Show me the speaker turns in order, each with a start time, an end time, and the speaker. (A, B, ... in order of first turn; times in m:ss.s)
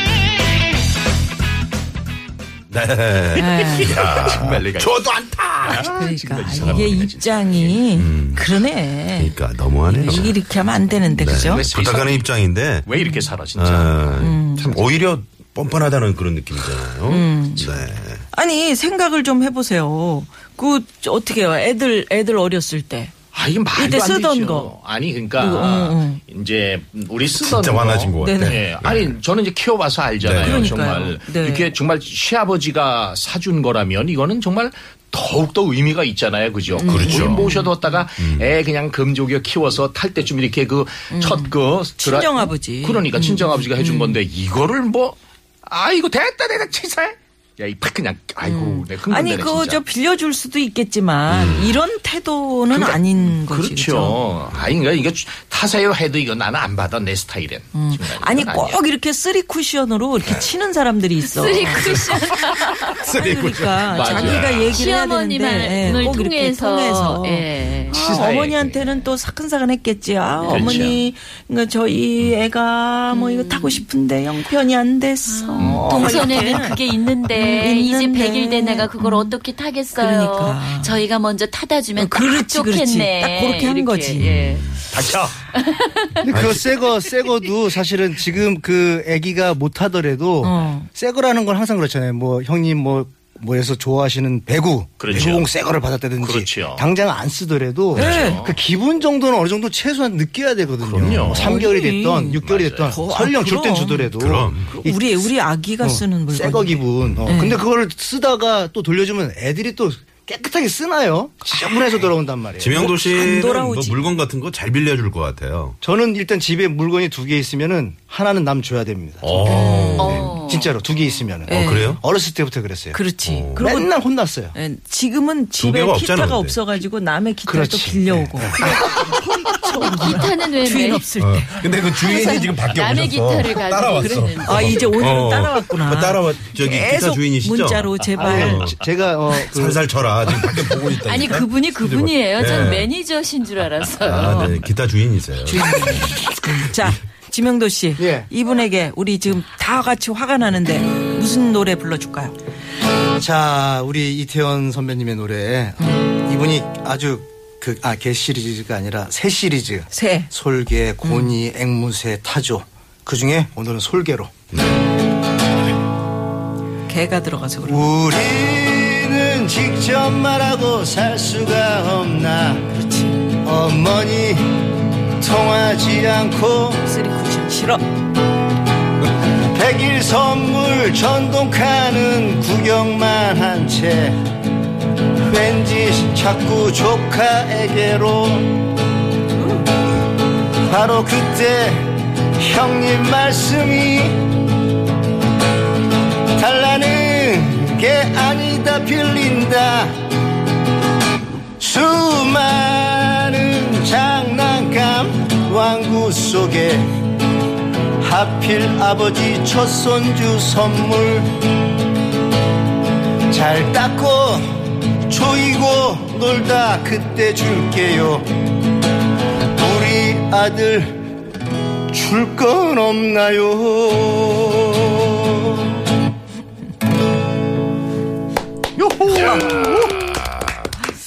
0:02.7-0:06.0 A
0:03.4-0:03.9 B
0:03.5-0:04.9 C
0:05.6-0:07.8 C
0:05.9-0:11.6 B
0:06.6-0:07.0 A
0:07.9-0:10.4 A
0:11.2-0:12.9 A
0:11.2-0:12.3 C
0:12.8-0:14.2 C
0:13.0-0:13.2 B
0:13.5-0:18.2 A
0:14.2-0:14.9 B
0:17.1-0:17.8 B
0:18.3-0:23.1 B
0:23.3-0:49.8 C
0:23.7-0:24.7 B
0:25.3-0:26.2 B
0:27.4-0:29.2 A
0:28.2-0:28.7 B
0:30.2-0:30.8 A
0:30.4-0:31.7 B
0:36.8-0:38.0 B
0:36.8-0:37.5 A
0:38.2-0:38.5 A
0:41.1-0:44.2 B
0:48.4-0:54.2 B
0:51.3-0:51.8 A
0:52.7-0:58.8 C
0:57.7-1:02.1 B
1:01.2-1:03.0 D
1:03.0-1:04.8 A
1:03.0-1:19.3 B
1:03.9-1:04.7 C
1:04.7-1:08.0 D
1:05.8-1:06.1 A
1:07.9-1:09.0 C
1:10.5-1:11.0 C
1:13.1-1:13.8 D
1:15.3-1:24.6 D
1:15.6-1:16.1 C
1:19.9-1:21.0 B
1:21.9-1:24.2 B
1:24.2-1:24.8 A
1:24.9-1:25.4 C
1:25.5-1:26.3 D
1:26.2-1:45.2 E
1:26.3-1:26.6 A
1:30.4-1:30.9 B
1:35.0-1:35.5 C
1:36.2-1:36.8 C
1:37.9-1:38.4 B
1:37.9-1:38.6 C
1:40.8-1:41.6 C
1:41.2-1:44.1 B
1:42.4-1:43.0 C
1:44.2-1:44.7 A
1:44.7-1:47.6 B
1:45.8-1:52.9 E
1:52.6-1:55.8 A
1:52.7-1:54.0 B
1:55.8-2:03.0 E
1:59.2-2:00.4 A
1:59.4-2:00.4 B
2:00.0-2:00.8 D
2:01.5-2:02.0 B
2:01.5-2:02.0 A
2:02.9-2:03.9 B
2:03.2-2:03.6 A
2:03.6-2:04.5 E
2:04.5-2:11.9 B
2:05.6-2:06.6 A
2:07.5-2:08.6 E
2:08.6-2:08.9 D
2:09.9-2:11.0 D
2:11.2-2:18.8 A
2:12.0-2:15.0 D
2:14.0-2:18.7 B
2:18.2-2:19.8 E
2:19.4-2:22.9 A
2:21.0-2:24.6 D
2:24.0-2:26.2 A
2:25.5-2:26.0 E
2:25.5-2:32.4 B
2:26.7-2:27.0 A
2:28.0-2:28.3 E
2:33.2-2:44.3 E
2:39.9-2:40.3 B
2:41.0-2:41.3 B
2:44.5-2:44.8 A
2:46.9-2:47.9 B
2:47.6-2:52.6 E
2:52.7-2:53.2 B
2:53.4-2:54.6 E
2:55.2-2:56.8 E
2:56.8-2:57.8 B
2:59.5-3:04.2 E
3:05.2-3:08.7 E
3:10.6-3:14.2 E
3:16.4-3:19.9 E
3:21.6-3:26.9 E
3:28.0-3:31.3 E
3:33.3-3:38.3 E
3:39.6-3:41.0 E
3:41.9-3:45.6 E
3:48.8-3:50.2 C